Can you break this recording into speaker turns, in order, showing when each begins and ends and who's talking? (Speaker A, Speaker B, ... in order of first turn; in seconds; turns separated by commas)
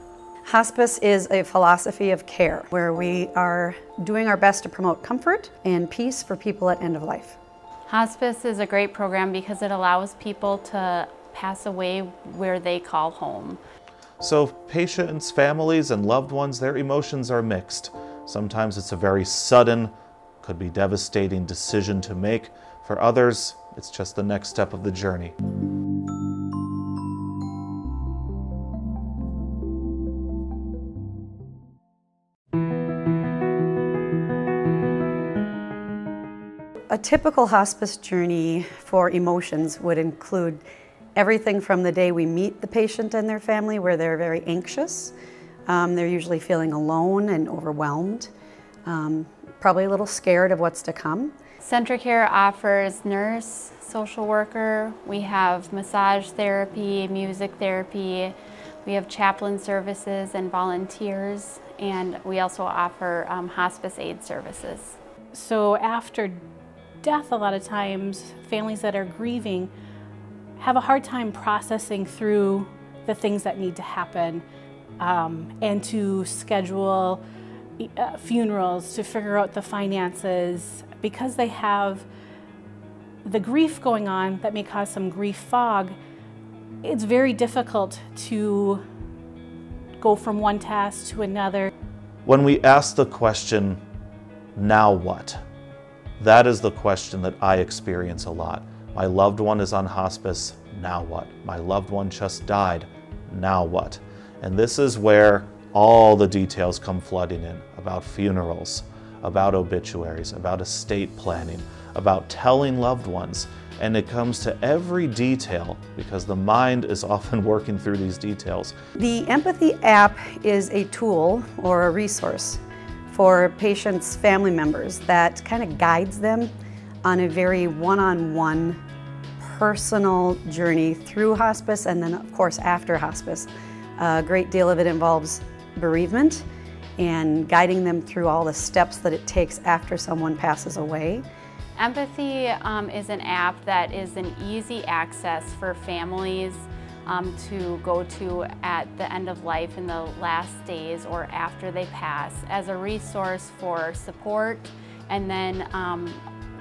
Speaker A: 0.5-7.4, Speaker B: 7.9-13.6, Speaker C: 14.2-25.3, Speaker A: 36.9-40.6, Speaker A: 41.1-45.1, Speaker A: 45.7-48.3, Speaker A: 48.9-51.3, Speaker B: 51.6-58.3, Speaker B: 58.8-65.0, Speaker D: 65.3-66.4, Speaker D: 67.0-69.7, Speaker D: 70.6-74.4, Speaker D: 75.0-77.2, Speaker D: 77.8-82.0, Speaker D: 83.2-86.0, Speaker D: 86.8-88.8, Speaker D: 90.0-91.7, Speaker C: 92.2-93.8, Speaker C: 94.5-95.4, Speaker C: 96.2-118.7, Speaker A: 119.0-126.5, Speaker A: 127.0-128.8, Speaker A: 129.4-136.4, Speaker A: 137.0-141.2, Speaker B: 141.8-156.2